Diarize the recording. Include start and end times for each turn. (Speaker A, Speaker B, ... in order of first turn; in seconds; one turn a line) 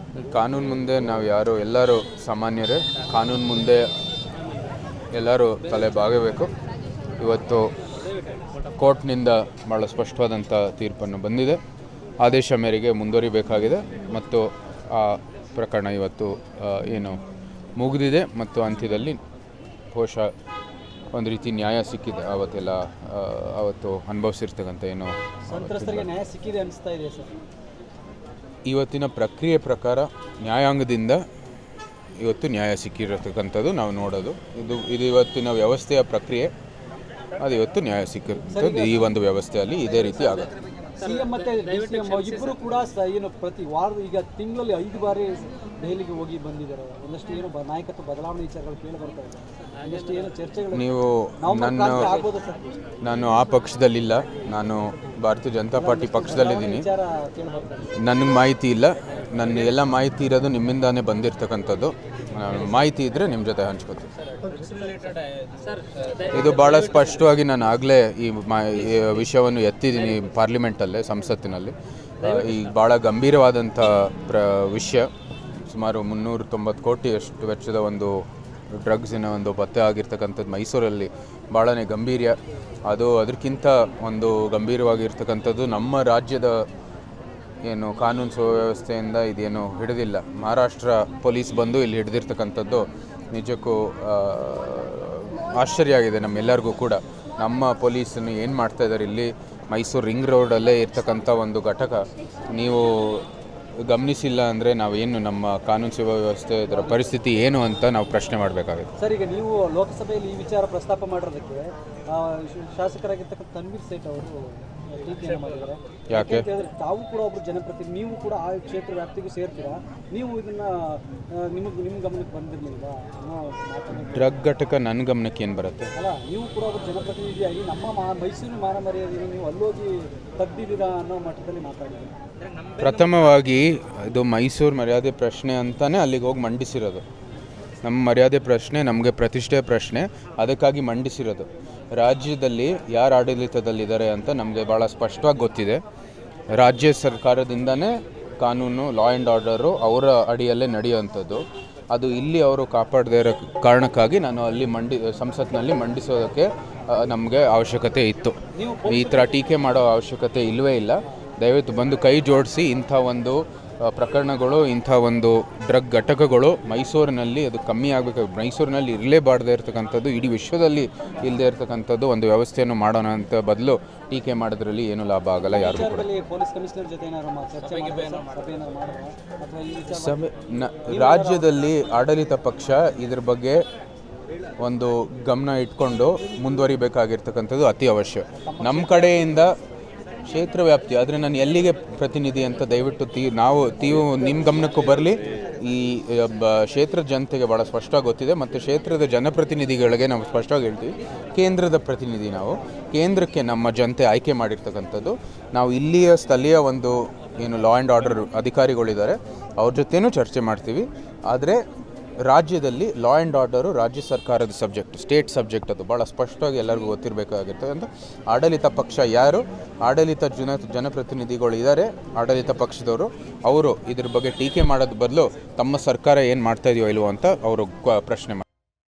Speaker A: 0.3-3.9
Speaker A: 5.1-6.5
Speaker A: 7.2-7.7
Speaker A: 8.8-11.6
Speaker A: 12.2-17.2
Speaker A: 17.8-19.2
Speaker A: 19.9-20.3
Speaker A: 21.1-26.1
Speaker B: 25.5-27.3
Speaker A: 28.7-31.2
Speaker A: 32.2-36.5
Speaker A: 37.4-40.5
Speaker B: 38.5-39.1
Speaker B: 41.0-50.9
Speaker A: 50.7-52.1
Speaker B: 51.4-52.6
Speaker A: 53.0-56.9
Speaker B: 55.8-57.8
Speaker A: 58.0-64.1
Speaker A: 66.3-75.1
Speaker A: 75.7-78.2
Speaker A: 78.7-86.7
Speaker A: 87.7-103.3
Speaker A: 103.9-108.9
Speaker B: 106.7-107.2
Speaker B: 109.0-124.4
Speaker A: 116.1-116.5
Speaker A: 123.9-125.9
Speaker B: 126.0-132.1
Speaker A: 132.8-137.0
Speaker A: 137.8-145.8
Speaker A: 146.6-176.1
Speaker B: 158.6-159.3
Speaker B: 175.5-180.2
Speaker A: 179.9-183.6
Speaker B: 180.9-181.5
Speaker A: 184.6-189.5
Speaker B: 188.4-189.5
Speaker A: 190.3-211.6
Speaker A: 212.2-228.4